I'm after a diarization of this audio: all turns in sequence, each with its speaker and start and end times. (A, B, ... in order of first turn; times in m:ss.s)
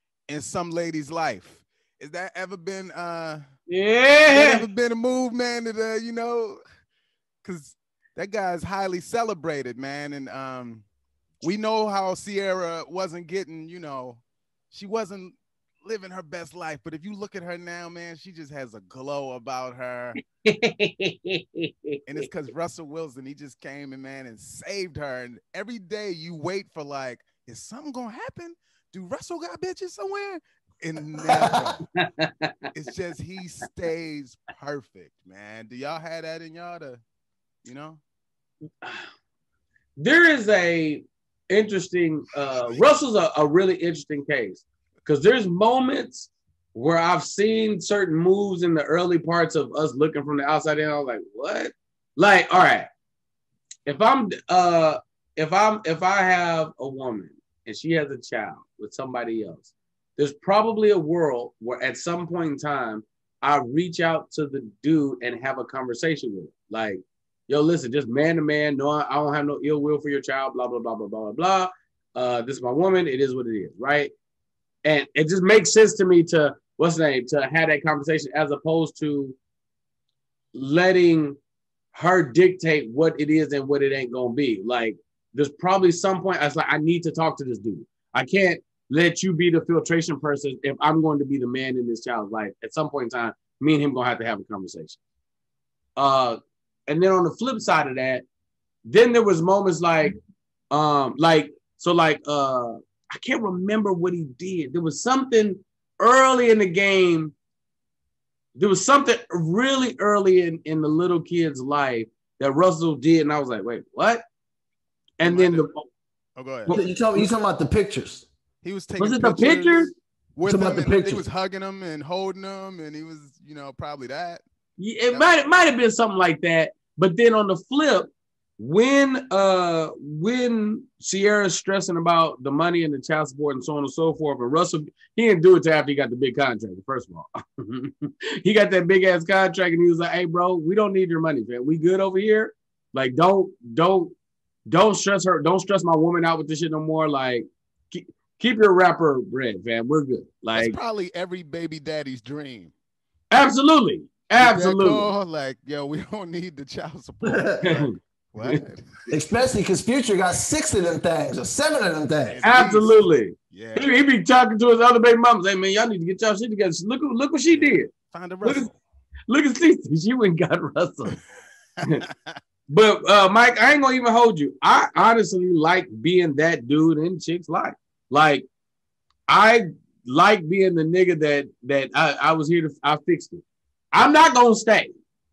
0:00.3-0:03.4 A
0:03.7-0:04.6 B
0:04.3-0:06.6 A
0:07.4-0:10.8 A
0:11.4-0:20.2 A
0:20.4-0:22.2 B
0:22.1-0:31.8 A
0:31.5-0:32.5 B
0:32.7-0:37.0 A
0:37.6-0:38.0 A
0:40.0-0:52.9 B
0:53.8-1:14.1 B
1:14.8-1:19.4 B
1:20.5-1:21.4 B
1:21.9-1:35.0 B
1:36.0-1:36.4 B
1:36.9-1:38.2 B
1:38.8-1:40.2 B
1:40.7-1:47.3 B
1:48.6-1:54.2 B
1:55.2-1:55.7 B
1:55.2-1:55.7 A
1:56.4-1:56.8 A
1:56.6-1:57.3 B
1:56.7-1:58.3 C
1:58.6-2:04.4 A
1:59.0-1:59.9 B
2:00.4-2:01.2 C
2:04.8-2:24.1 B
2:24.7-2:30.8 B
2:30.5-2:32.7 A
2:33.3-2:35.1 B
2:34.4-2:38.8 A
2:37.6-2:38.6 B
2:39.1-2:42.4 C
2:42.2-2:43.9 A
2:42.4-2:47.9 B
2:47.5-2:48.8 A
2:49.3-2:51.1 B
2:51.8-2:52.4 A
2:52.7-2:58.4 B
2:59.3-3:04.9 B